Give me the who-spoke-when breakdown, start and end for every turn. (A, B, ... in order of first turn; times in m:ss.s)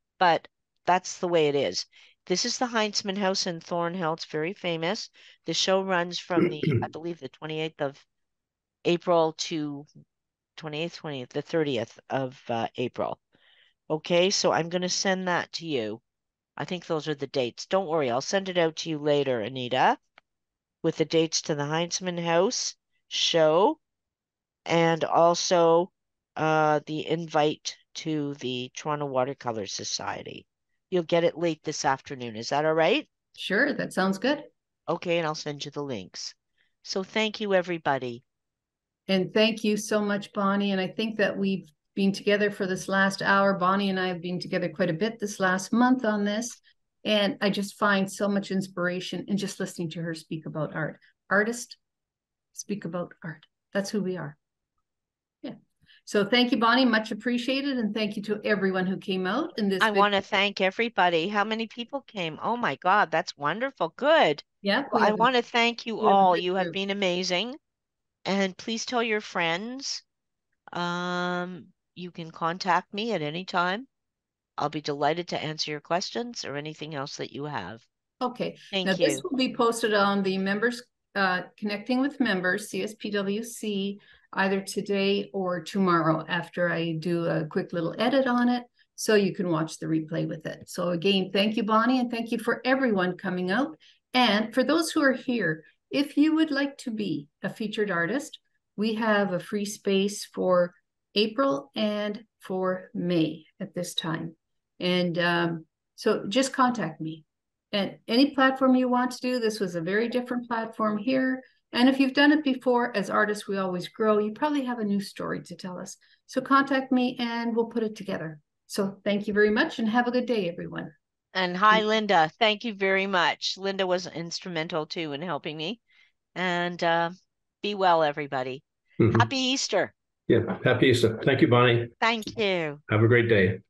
0:00.2-0:08.0 A
0:08.8-0:09.9 A
0:10.6-0:13.2 A
0:13.9-0:16.0 A
0:16.6-0:20.0 A
0:20.8-0:23.8 A
0:24.6-0:33.1 A
0:33.4-0:34.5 B
0:34.9-0:38.2 A
0:39.1-0:51.8 B
0:52.5-0:54.4 B
0:55.4-1:00.1 B
0:59.8-1:07.6 A
1:04.6-1:05.3 B
1:06.0-1:06.7 B
1:08.2-1:10.0 A
1:10.7-1:13.9 A
1:14.6-1:17.8 A
1:18.2-2:00.9 B
1:18.7-1:19.2 A
2:01.3-2:05.8 A
2:06.3-2:09.9 A
2:09.0-2:09.3 C
2:10.3-2:11.9 C
2:12.0-2:12.8 A
2:12.9-2:13.6 C